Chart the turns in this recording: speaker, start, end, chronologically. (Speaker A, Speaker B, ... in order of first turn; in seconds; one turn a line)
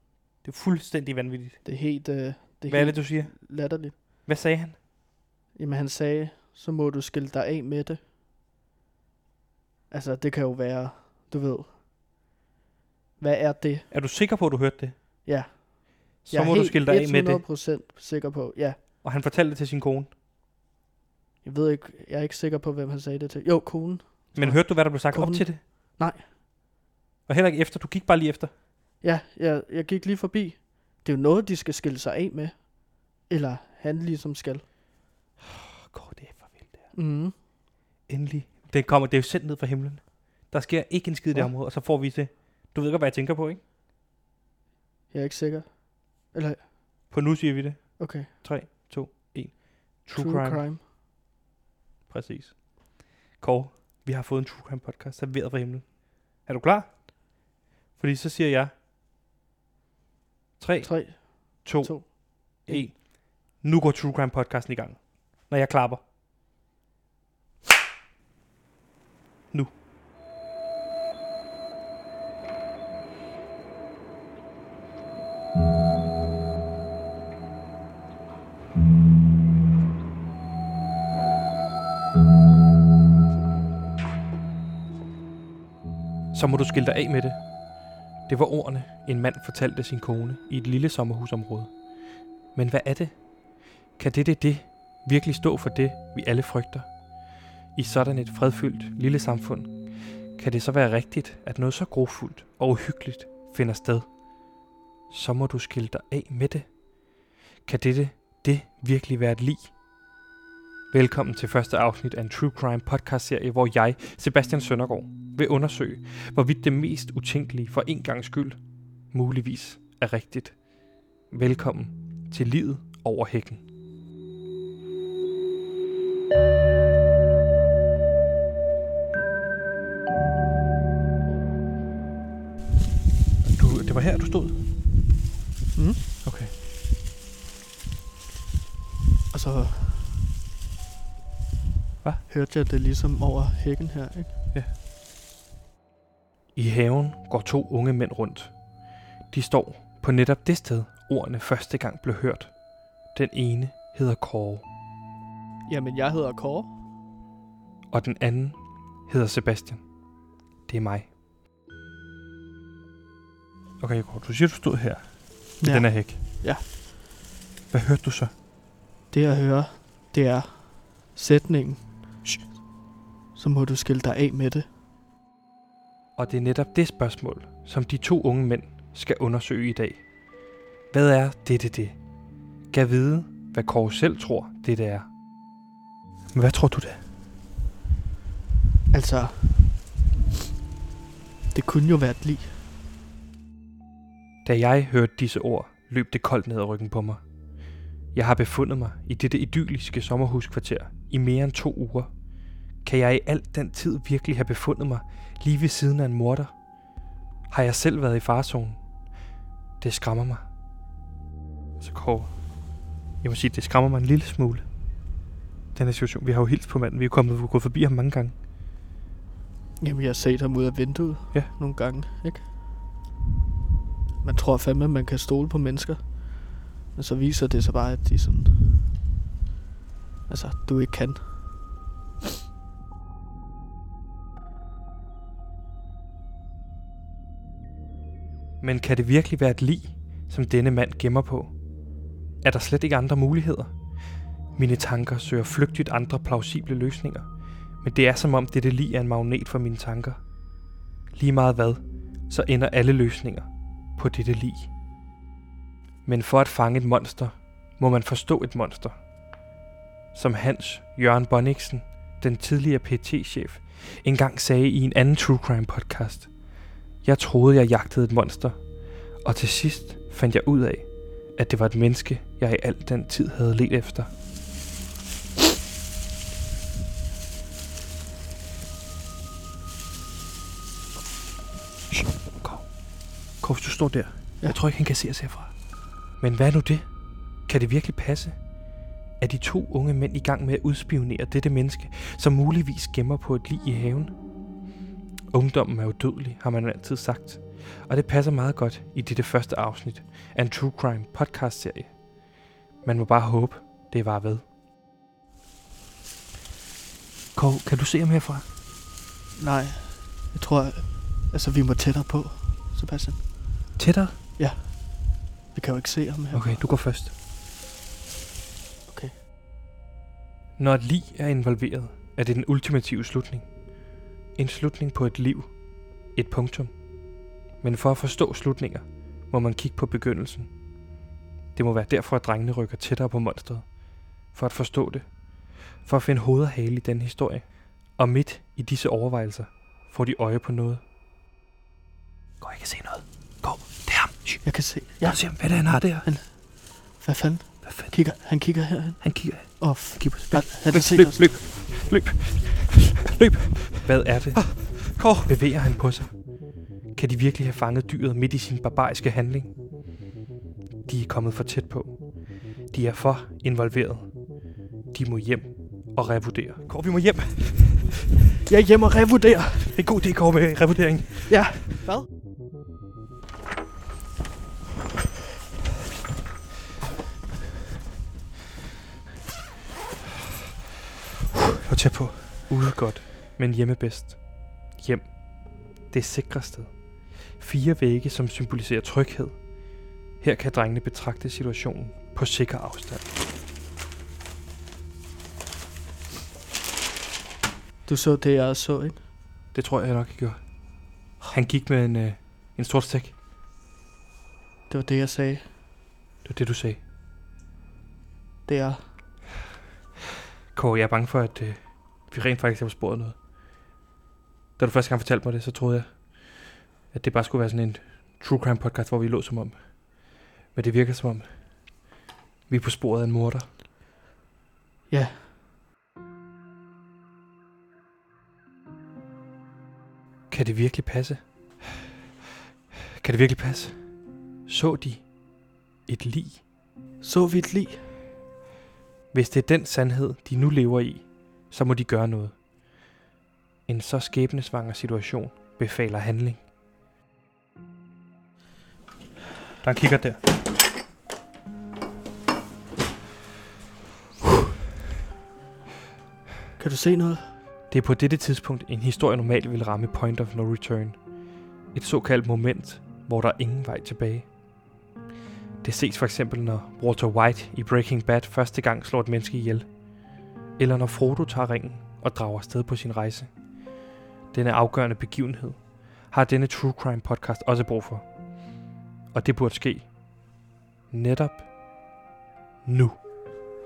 Speaker A: 0.4-1.6
Speaker B: 1.6-4.0
Speaker A: 2.7-4.8
Speaker B: 5.5-8.0
Speaker B: 9.9-11.7
Speaker B: 13.2-13.9
Speaker A: 13.9-14.9
Speaker B: 15.2-18.8
Speaker A: 16.2-17.4
Speaker A: 19.0-20.1
Speaker B: 21.4-26.3
Speaker A: 24.3-25.6
Speaker A: 27.3-28.5
Speaker B: 29.0-34.6
Speaker A: 35.7-36.9
Speaker B: 36.9-37.4
Speaker A: 38.1-43.6
Speaker B: 45.1-46.6
Speaker A: 47.1-50.7
Speaker B: 48.0-48.3
Speaker B: 50.1-50.8
Speaker A: 52.1-57.1
Speaker A: 58.0-58.7
Speaker A: 60.6-66.0
Speaker B: 60.8-62.9
Speaker A: 86.3-87.4
Speaker A: 88.2-91.7
Speaker A: 92.5-93.2
Speaker A: 94.0-96.9
Speaker A: 97.7-99.8
Speaker A: 100.3-104.1
Speaker A: 105.1-106.7
Speaker A: 107.6-109.7
Speaker A: 110.9-118.6
Speaker A: 119.1-120.5
Speaker A: 121.3-123.6
Speaker A: 133.4-134.6
Speaker B: 135.7-136.0
Speaker A: 136.2-136.5
Speaker B: 139.3-140.1
Speaker B: 142.3-144.3
Speaker A: 146.5-148.5
Speaker A: 149.3-152.5
Speaker A: 153.1-154.7
Speaker B: 155.7-156.7
Speaker A: 157.9-159.8
Speaker A: 160.7-161.1
Speaker A: 163.8-166.2
Speaker B: 165.6-166.6
Speaker A: 167.7-168.3
Speaker B: 169.1-171.8
Speaker B: 173.3-174.7
Speaker A: 176.2-180.0
Speaker A: 180.9-181.9
Speaker A: 182.7-185.1
Speaker A: 186.3-187.0
Speaker B: 188.9-189.7
Speaker B: 191.5-192.6
Speaker A: 194.4-197.2
Speaker A: 198.1-202.1
Speaker A: 202.8-206.5
Speaker A: 207.5-208.8
Speaker A: 209.8-210.4
Speaker A: 211.8-212.3
Speaker A: 213.2-214.6
Speaker A: 215.7-218.3
Speaker B: 219.8-222.4
Speaker B: 224.2-228.6
Speaker B: 230.3-231.5
Speaker A: 238.6-241.5
Speaker A: 242.4-243.7
Speaker A: 244.6-247.2
Speaker A: 247.8-250.2
Speaker A: 251.2-254.7
Speaker A: 256.1-258.9
Speaker A: 260.1-266.3
Speaker A: 267.0-268.6
Speaker A: 269.2-274.1
Speaker A: 282.0-282.7
Speaker A: 283.4-285.5
Speaker A: 286.2-286.9
Speaker A: 287.5-288.4
Speaker A: 289.2-294.1
Speaker A: 295.3-301.9
Speaker A: 302.8-304.4
Speaker A: 307.3-308.4
Speaker B: 309.4-313.2
Speaker A: 313.8-314.1
Speaker B: 314.4-316.7
Speaker A: 316.3-317.1
Speaker B: 318.9-319.1
Speaker A: 320.6-323.5
Speaker A: 324.3-325.5
Speaker A: 326.1-326.7
Speaker A: 327.6-330.5
Speaker A: 331.5-333.7
Speaker A: 334.3-335.1
Speaker A: 335.8-340.8
Speaker A: 342.4-346.1
Speaker B: 344.4-351.4
Speaker A: 347.6-359.6
Speaker A: 360.9-362.1
Speaker A: 362.6-364.3
Speaker A: 364.9-367.6
Speaker B: 368.4-369.8
Speaker A: 369.6-371.5
Speaker B: 371.3-372.1
Speaker A: 381.6-384.2
Speaker A: 384.8-385.1
Speaker A: 385.9-386.7
Speaker A: 387.3-389.4
Speaker A: 390.2-393.0
Speaker B: 397.8-399.0
Speaker A: 399.5-400.4
Speaker A: 401.2-403.1
Speaker B: 404.7-405.5
Speaker A: 406.2-406.8
Speaker B: 408.4-408.8
Speaker A: 410.5-413.2
Speaker A: 414.6-419.8
Speaker A: 420.5-421.3
Speaker A: 422.5-423.5
Speaker B: 424.9-425.3
Speaker A: 430.3-431.2
Speaker A: 433.0-433.8
Speaker A: 434.4-435.1
Speaker A: 435.9-436.4
Speaker B: 437.0-437.8
Speaker A: 439.1-442.4
Speaker A: 443.7-446.4
Speaker A: 449.6-450.2
Speaker B: 456.6-457.3
Speaker A: 457.7-461.0
Speaker A: 461.7-464.3
Speaker A: 465.6-469.7
Speaker A: 470.6-473.3
Speaker A: 474.3-478.0
Speaker A: 479.1-479.9
Speaker A: 480.9-481.5
Speaker A: 482.6-483.0